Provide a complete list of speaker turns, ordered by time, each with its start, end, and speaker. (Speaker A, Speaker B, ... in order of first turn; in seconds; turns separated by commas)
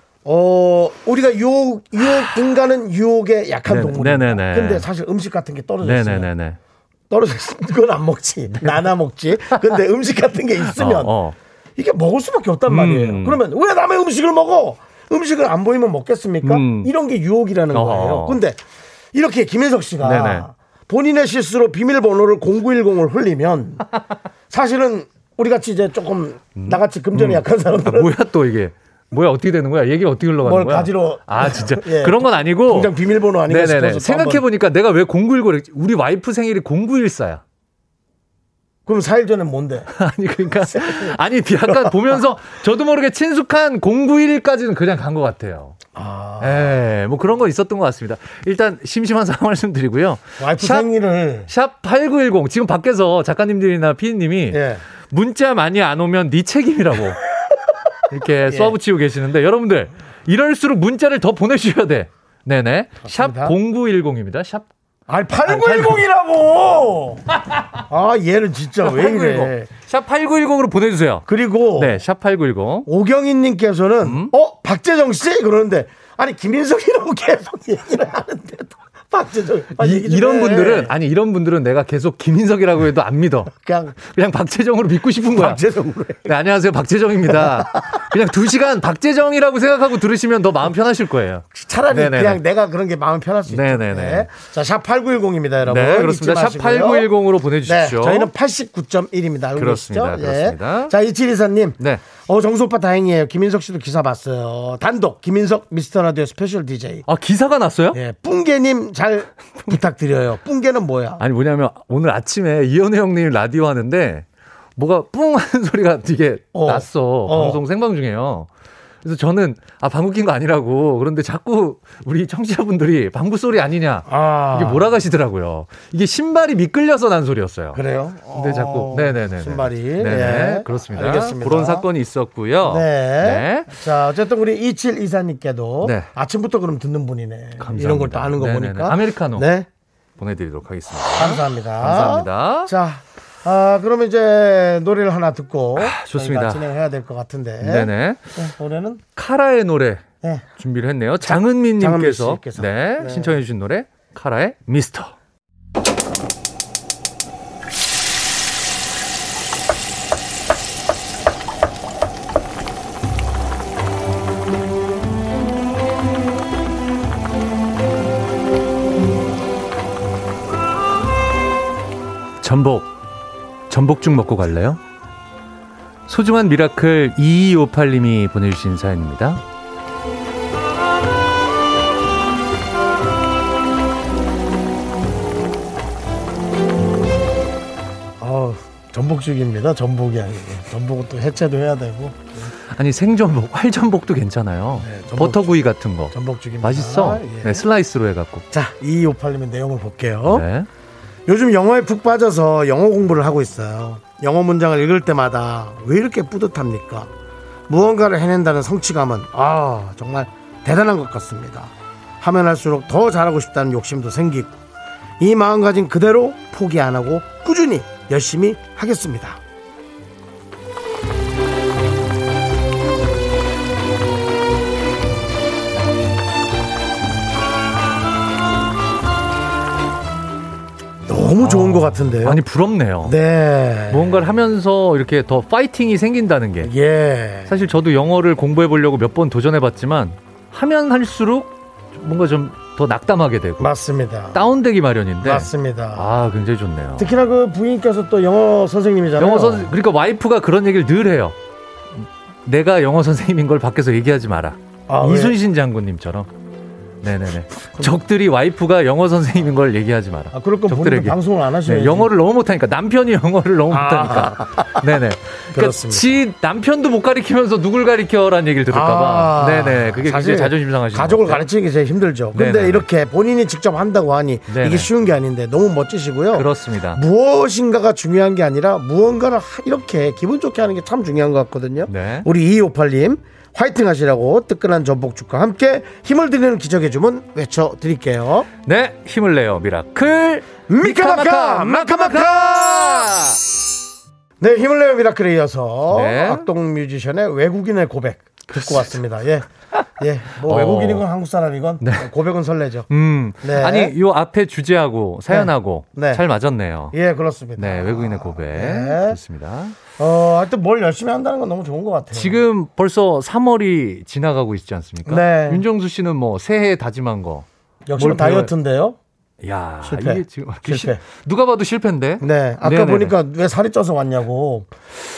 Speaker A: 0.2-6.3, Speaker B: 3.7-4.8, Speaker B: 5.8-6.6, Speaker A: 7.1-11.1, Speaker B: 10.6-11.3, Speaker A: 11.8-18.6, Speaker B: 12.7-13.4, Speaker B: 16.4-16.9, Speaker B: 17.7-18.4, Speaker A: 19.1-23.9, Speaker B: 20.0-20.4, Speaker A: 24.5-28.1, Speaker B: 26.6-32.9, Speaker A: 30.4-34.4, Speaker B: 33.5-37.4, Speaker A: 38.9-39.9, Speaker B: 39.9-45.8, Speaker A: 40.7-42.0, Speaker A: 45.9-46.7, Speaker B: 46.4-50.9, Speaker A: 50.4-51.5, Speaker B: 51.5-57.2, Speaker A: 54.5-54.8, Speaker B: 58.1-64.7, Speaker A: 58.5-58.7, Speaker A: 63.0-63.5, Speaker A: 65.1-67.2, Speaker B: 65.5-66.0, Speaker B: 67.5-67.8, Speaker A: 67.9-69.7, Speaker B: 68.8-72.9, Speaker A: 71.3-72.0, Speaker A: 72.8-80.9, Speaker B: 74.0-74.3, Speaker B: 79.8-85.6, Speaker A: 83.5-84.0, Speaker A: 85.3-86.3, Speaker B: 86.2-92.4, Speaker A: 87.3-87.9, Speaker A: 91.5-97.1, Speaker B: 93.5-94.3, Speaker B: 95.7-98.3, Speaker A: 97.6-107.0, Speaker B: 99.5-100.9, Speaker B: 107.1-108.0, Speaker A: 107.9-111.2, Speaker B: 111.2-114.2, Speaker B: 114.8-118.5, Speaker A: 116.5-117.6, Speaker B: 119.0-127.8, Speaker A: 124.1-124.9, Speaker A: 127.7-131.9, Speaker B: 128.3-133.7, Speaker A: 132.6-139.7, Speaker B: 135.8-136.1, Speaker B: 137.6-139.5, Speaker B: 140.2-142.7, Speaker A: 141.1-149.0, Speaker B: 145.8-146.6, Speaker B: 147.6-148.2, Speaker B: 149.1-150.0, Speaker A: 150.2-150.5, Speaker B: 150.6-155.1, Speaker A: 151.2-153.3, Speaker B: 172.4-172.9, Speaker B: 173.7-174.8, Speaker B: 176.1-179.4, Speaker A: 188.2-192.2, Speaker B: 192.7-198.4, Speaker A: 194.8-195.6, Speaker A: 196.1-197.6, Speaker A: 198.5-200.4, Speaker B: 200.3-200.7, Speaker A: 201.2-207.1, Speaker A: 207.7-214.5, Speaker A: 215.2-219.4, Speaker A: 231.1-232.4, Speaker B: 231.4-233.2, Speaker A: 233.0-234.2, Speaker B: 233.9-236.7, Speaker A: 236.6-237.6, Speaker B: 237.5-243.7, Speaker A: 243.6-244.4, Speaker B: 244.3-247.1, Speaker A: 245.2-246.1, Speaker A: 247.0-249.7, Speaker B: 249.2-251.3, Speaker B: 251.9-256.3, Speaker A: 254.9-255.4, Speaker B: 257.0-271.5, Speaker A: 260.3-262.1, Speaker A: 263.7-264.9, Speaker A: 265.5-266.1, Speaker A: 268.7-288.5, Speaker B: 272.3-272.8, Speaker B: 274.5-274.9, Speaker B: 276.3-277.0, Speaker B: 281.9-282.3, Speaker B: 288.6-293.4, Speaker A: 290.7-293.1, Speaker A: 294.4-302.9, Speaker B: 295.9-296.4, Speaker B: 298.5-298.9, Speaker B: 300.4-301.0, Speaker B: 301.8-302.1, Speaker B: 302.9-306.9, Speaker A: 303.4-303.9, Speaker A: 305.3-306.2, Speaker A: 306.9-309.2, Speaker B: 307.6-309.8, Speaker A: 310.0-312.4, Speaker B: 312.1-317.4, Speaker A: 315.0-315.6, Speaker A: 317.9-319.0, Speaker B: 318.0-318.5, Speaker B: 319.4-323.1, Speaker A: 319.8-321.0, Speaker A: 322.2-324.7